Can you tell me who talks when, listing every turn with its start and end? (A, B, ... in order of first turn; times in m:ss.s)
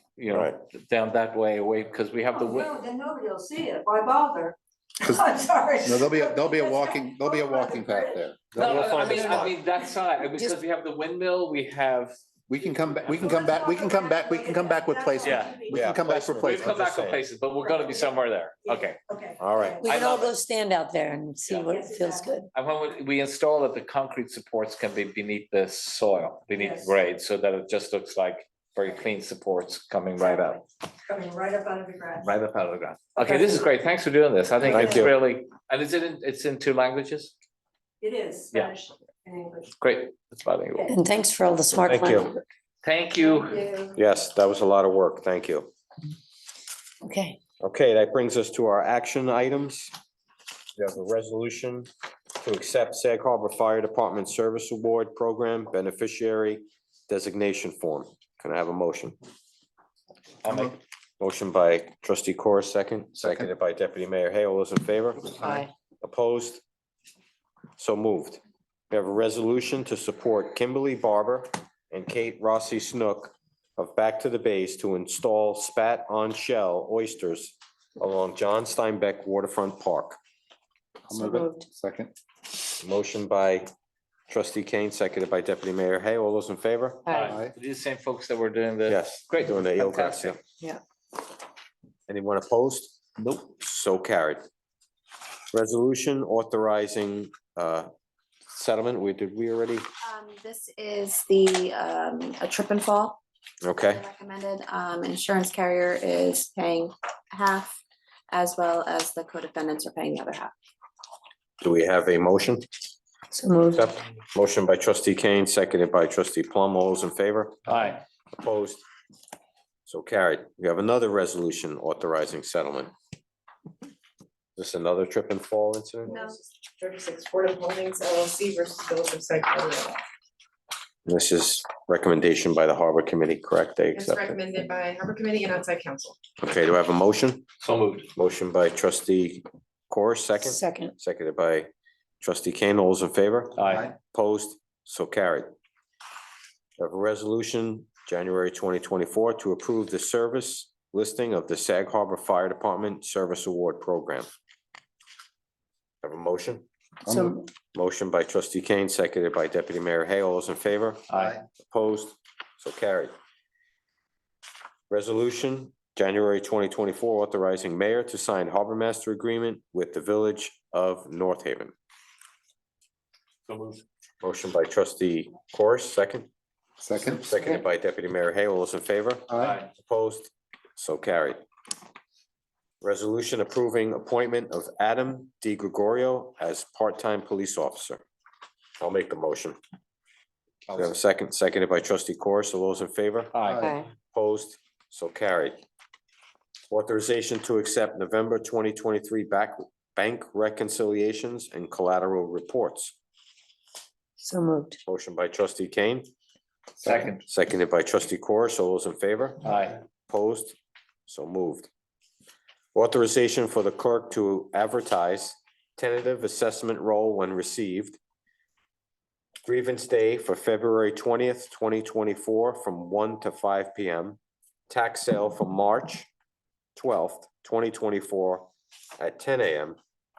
0:00.2-0:02.7 A
0:00.3-0:00.6 B
0:02.3-0:10.1 C
0:05.8-0:09.5 D
0:08.6-0:12.2 A
0:08.6-0:09.6 B
0:10.3-0:10.6 E
0:12.5-0:16.8 D
0:12.9-0:16.0 C
0:15.2-0:15.6 A
0:15.7-0:17.2 B
0:16.4-0:19.0 A
0:17.6-0:20.0 C
0:19.4-0:19.9 B
0:19.8-0:22.5 E
0:19.8-0:20.4 A
0:21.5-0:21.7 A
0:21.5-0:22.5 C
0:22.5-0:30.6 A
0:26.5-0:27.0 C
0:30.2-0:32.4 C
0:32.2-0:37.3 A
0:33.2-0:33.6 C
0:34.7-0:35.1 B
0:34.7-0:35.1 C
0:38.0-0:39.8 C
0:39.8-0:40.9 A
0:40.9-0:42.4 E
0:41.9-0:42.3 B
0:42.8-0:43.6 A
0:43.2-0:44.0 C
0:44.0-0:45.7 B
0:47.0-0:47.4 E
0:47.6-0:49.9 B
0:50.8-0:51.9 B
0:52.4-0:59.2 B
1:00.4-1:00.8 A
1:00.5-1:00.8 D
1:01.2-1:06.6 B
1:03.2-1:03.5 D
1:05.4-1:05.7 E
1:07.8-1:20.2 B
1:21.1-1:22.1 D
1:21.1-1:21.7 E
1:22.8-1:23.7 B
1:24.3-1:27.3 B
1:27.1-1:27.3 E
1:27.1-1:30.4 A
1:27.3-1:27.5 D
1:28.9-1:30.4 B
1:32.1-1:34.4 B
1:33.2-1:33.4 A
1:35.5-1:37.9 B
1:38.5-1:39.8 B
1:40.0-1:43.2 F
1:43.6-1:44.0 B
1:43.8-1:47.8 F
1:48.3-1:50.5 F
1:51.6-1:52.7 B
1:53.3-1:53.9 E
1:53.7-1:57.7 B
1:57.7-1:58.0 A
1:58.3-1:58.8 B
1:59.9-2:02.9 B
2:04.6-2:06.1 B
2:06.1-2:10.0 G
2:11.1-2:14.4 B
2:13.9-2:16.2 G
2:16.4-2:17.5 B
2:17.6-2:18.1 A
2:18.1-2:21.7 B
2:20.4-2:20.9 E
2:22.2-2:25.5 B
2:23.6-2:23.9 A
2:23.7-2:23.9 D
2:26.8-2:34.3 B
2:36.0-2:36.7 B
2:37.0-2:37.4 D
2:37.1-2:37.5 E
2:37.7-2:43.1 B
2:41.1-2:41.4 A
2:44.9-2:51.7 B
2:53.5-2:53.8 A
2:54.2-2:56.3 B
2:56.8-2:57.6 D
2:57.1-3:01.4 B
2:59.3-2:59.6 D
2:59.4-2:59.7 A
3:02.8-3:08.0 B
3:08.8-3:09.6 B
3:10.7-3:13.4 B
3:13.3-3:13.7 A
3:13.4-3:13.8 D
3:13.6-3:13.9 E
3:14.1-3:15.6 B
3:16.7-3:23.0 B
3:24.2-3:24.8 E
3:24.9-3:26.1 B
3:26.8-3:27.1 D
3:26.8-3:27.2 A
3:27.3-3:29.5 B
3:29.4-3:29.8 A
3:30.1-3:31.7 B
3:32.8-3:38.0 B
3:39.4-3:44.2 B
3:44.7-3:46.1 B
3:46.8-3:49.8 B